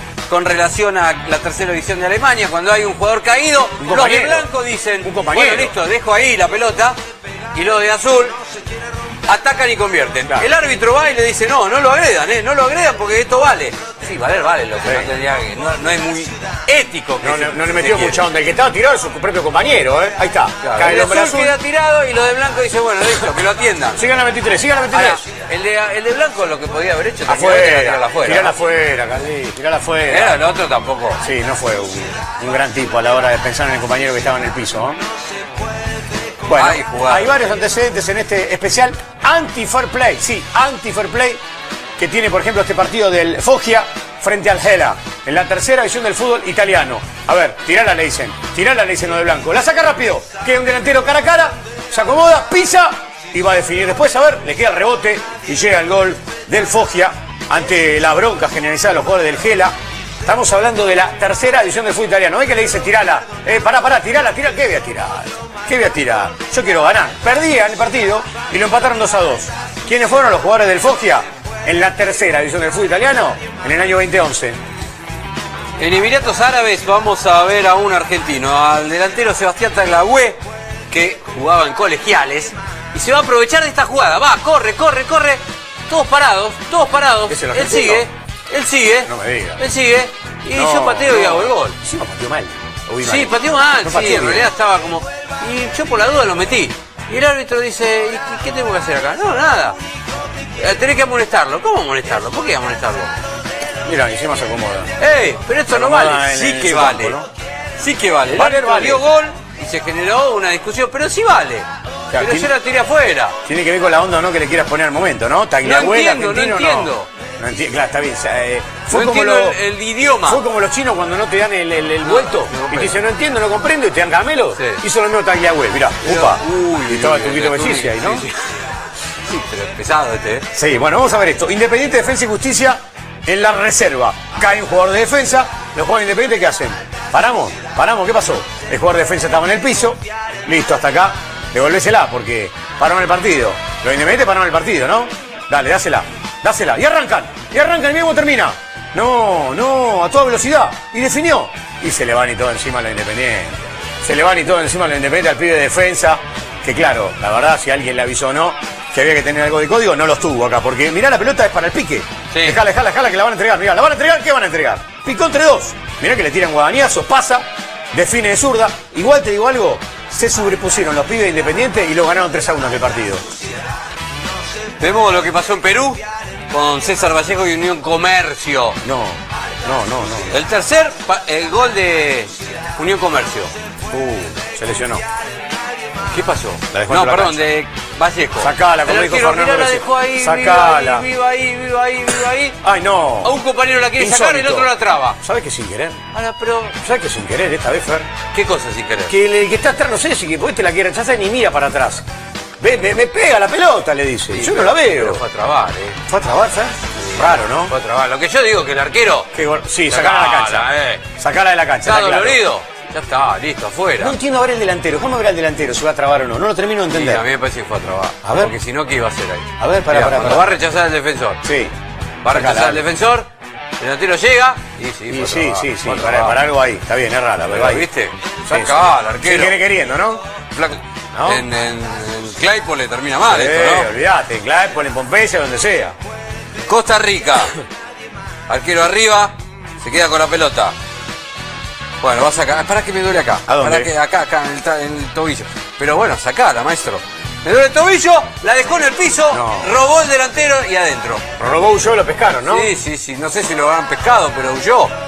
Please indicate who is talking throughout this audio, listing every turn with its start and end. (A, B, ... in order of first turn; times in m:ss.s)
0:00.3-0:07.0 A
0:03.8-0:04.5 B
0:05.0-0:05.8 B
0:07.5-0:08.4 A
0:09.3-0:18.2 A
0:14.8-0:15.1 B
0:17.2-0:21.6 B
0:20.6-0:24.1 A
0:24.0-0:25.2 B
0:24.9-0:28.6 A
0:27.3-0:30.4 B
0:30.1-0:31.2 A
0:31.2-0:35.0 B
0:36.5-0:41.4 B
0:36.5-0:37.4 A
0:42.0-0:59.7 B
1:00.2-1:14.6 B
1:15.8-1:31.8 A
1:27.3-1:28.1 B
1:29.0-1:29.6 B
1:30.5-1:34.5 B
1:33.0-1:39.8 A
1:40.6-1:43.1 A
1:43.8-1:44.9 B
1:45.0-1:47.2 A
1:45.7-1:47.3 B
1:47.8-1:53.4 A
1:48.3-1:49.0 B
1:52.1-1:52.5 B
1:53.4-1:59.6 B
1:55.6-1:57.1 A
1:58.9-2:00.4 A
2:00.2-2:08.3 B
2:02.0-2:03.0 A
2:04.6-2:04.8 A
2:06.0-2:08.6 A
2:09.2-2:10.5 A
2:10.5-2:53.2 B
2:42.3-2:42.6 A
2:54.8-2:58.8 A
2:58.8-3:00.4 B
3:00.3-3:03.5 A
3:03.9-3:05.0 B
3:06.1-3:12.6 A
3:06.7-3:07.4 B
3:08.4-3:11.1 B
3:12.6-3:13.4 B
3:13.2-3:15.2 A
3:14.0-3:16.1 B
3:16.1-3:16.8 A
3:16.8-3:18.1 B
3:18.3-3:19.2 A
3:19.1-3:22.0 B
3:22.6-3:25.2 B
3:24.3-3:26.0 A
3:26.1-3:27.7 B
3:27.0-3:29.3 A
3:29.3-3:32.4 B
3:29.9-3:31.0 A
3:31.8-3:34.2 A
3:34.0-3:37.2 B
3:36.9-3:41.4 A
3:38.2-3:38.5 B
3:39.6-3:40.6 B
3:41.4-3:41.7 B
3:42.2-3:43.3 A
3:42.3-3:42.9 B
3:43.8-3:46.4 A
3:45.1-3:47.9 B
3:47.5-3:49.6 A
3:48.5-3:50.2 B
3:50.5-3:53.9 A
3:51.1-3:51.4 B
3:53.2-3:56.0 B
3:56.7-3:57.6 A
3:58.5-4:00.8 A
4:02.0-4:11.3 A
4:03.5-4:03.9 B
4:09.3-4:09.8 B
4:11.4-4:12.7 B
4:12.4-4:15.0 A